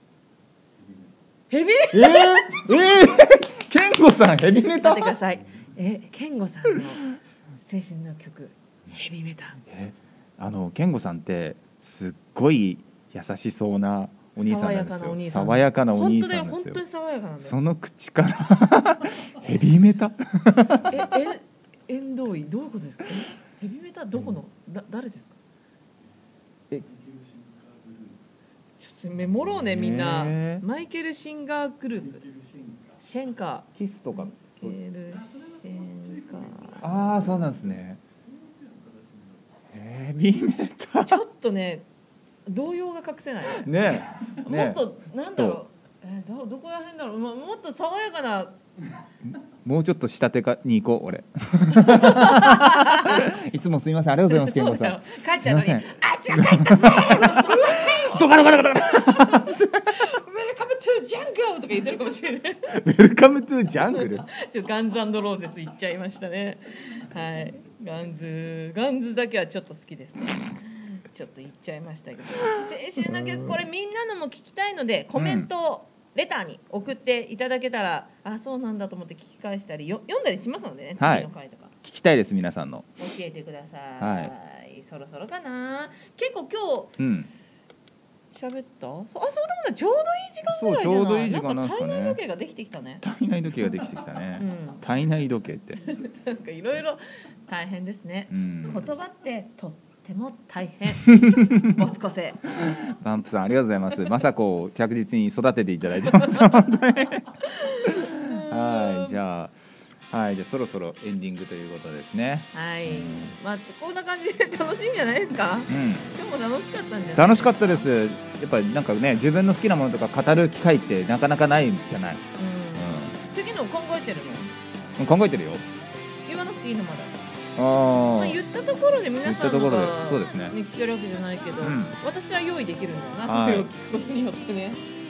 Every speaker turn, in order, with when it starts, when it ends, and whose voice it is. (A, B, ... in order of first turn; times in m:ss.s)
0:01.5-0:02.6 A
0:01.9-0:05.2 B
0:04.7-0:07.1 A
0:07.6-0:09.6 A
0:09.7-0:16.8 B
0:14.4-0:17.6 A
0:17.4-0:21.0 B
0:20.9-0:25.4 A
0:28.8-0:32.3 A
0:29.6-0:30.6 B
0:33.0-0:37.3 A
0:33.8-0:34.8 B
0:36.8-0:38.0 B
0:39.7-0:41.2 B
0:41.0-0:41.8 A
0:42.4-0:43.7 A
0:43.6-0:45.6 B
0:44.3-0:48.6 A
0:49.6-0:59.8 B
0:51.7-0:53.3 A
0:54.3-1:02.7 A
1:02.7-1:04.3 B
1:03.9-1:21.7 A
1:15.1-1:15.5 B
1:21.0-1:21.3 B
1:21.8-1:22.8 B
1:23.0-1:26.9 A
1:24.0-1:24.3 B
1:27.0-1:27.3 B
1:28.3-1:33.0 A
1:30.5-1:32.2 B
1:33.0-1:35.8 B
1:34.4-1:34.8 A
1:35.8-1:42.5 A
1:38.3-1:38.8 B
1:41.0-1:41.4 B
1:42.6-1:47.2 B
1:46.1-1:46.5 A
1:47.4-1:49.2 A
1:47.8-1:49.6 B
1:50.1-1:53.3 B
1:52.5-1:57.8 A
1:55.7-1:56.1 B
1:57.2-2:02.2 B
2:02.4-2:04.5 A
2:02.8-2:03.2 B
2:05.0-2:05.6 B
2:06.2-2:07.3 A
2:07.6-2:08.4 B
2:08.1-2:14.9 A
2:09.2-2:10.6 B
2:11.6-2:12.0 B
2:13.3-2:13.7 B